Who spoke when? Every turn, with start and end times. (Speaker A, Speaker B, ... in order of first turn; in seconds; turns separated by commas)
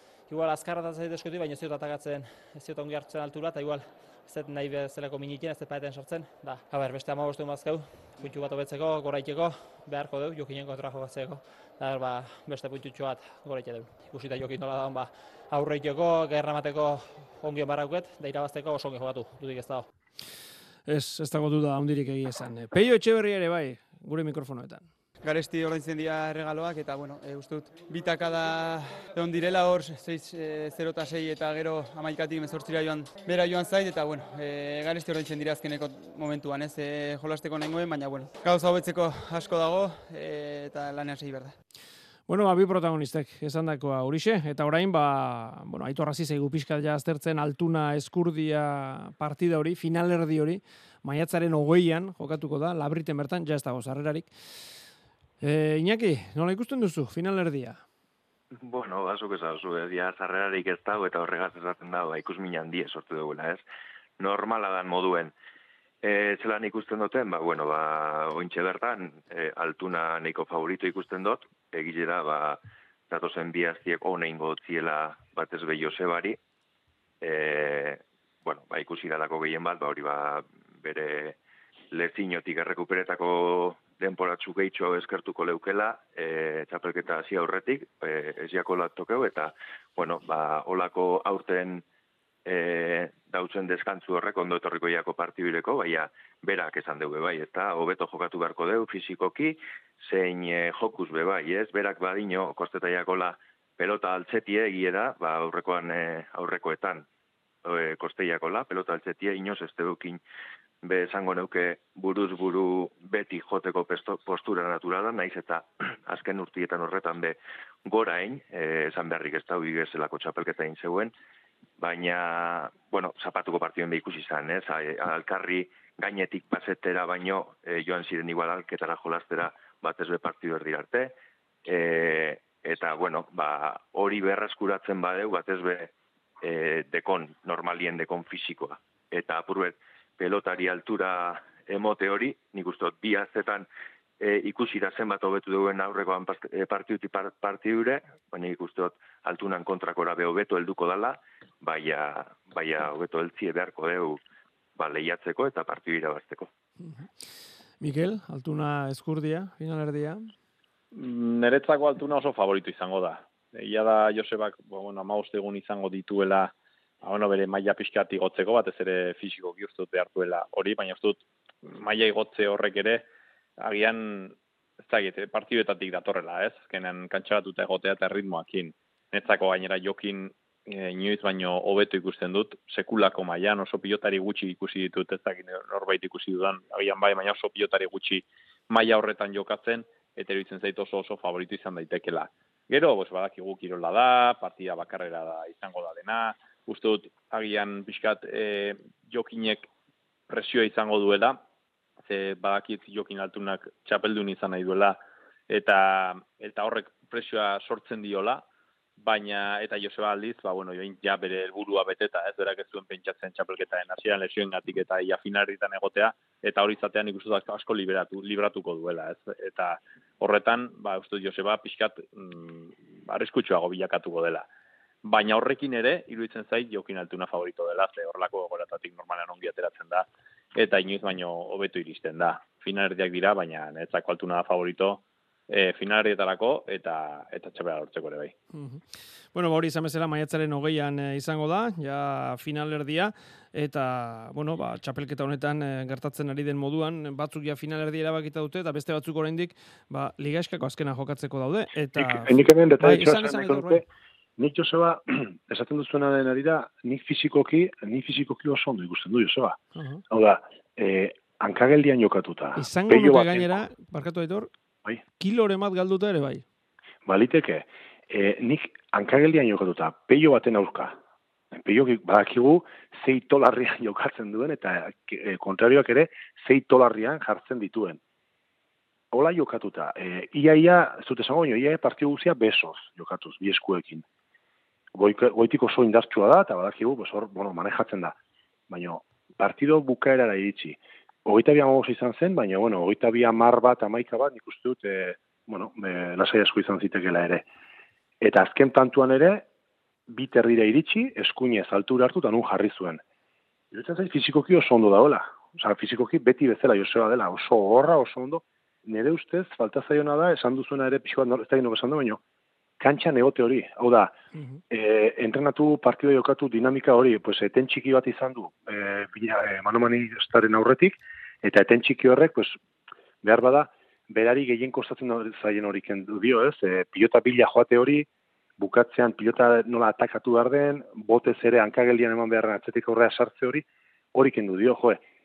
Speaker A: 0.3-19.9, Speaker B: 20.9-24.9, Speaker C: 25.2-41.6, Speaker B: 42.3-54.3, Speaker B: 55.4-57.8, Speaker D: 58.5-63.6, Speaker D: 64.2-65.3, Speaker D: 66.0-76.4, Speaker D: 77.2-81.4, Speaker D: 81.9-91.8, Speaker D: 92.5-107.1, Speaker D: 107.7-110.2, Speaker D: 110.8-121.1, Speaker D: 121.8-143.7, Speaker D: 144.2-154.2, Speaker D: 154.8-156.5, Speaker B: 157.8-160.3, Speaker E: 160.9-173.1, Speaker E: 173.6-199.7, Speaker E: 200.3-201.4, Speaker E: 202.1-208.4, Speaker E: 209.0-224.5, Speaker E: 225.0-238.3, Speaker B: 238.5-253.8, Speaker F: 252.0-253.9, Speaker F: 254.4-259.6, Speaker B: 259.8-260.0, Speaker F: 260.1-263.6, Speaker B: 262.6-264.5, Speaker B: 265.2-266.4, Speaker F: 267.1-271.0, Speaker F: 271.5-278.0, Speaker F: 279.1-284.1, Speaker F: 284.9-288.2, Speaker F: 288.7-297.5, Speaker F: 298.2-299.5, Speaker F: 300.1-303.0, Speaker F: 303.7-312.2, Speaker F: 312.8-314.1, Speaker F: 314.7-322.6, Speaker F: 323.2-335.0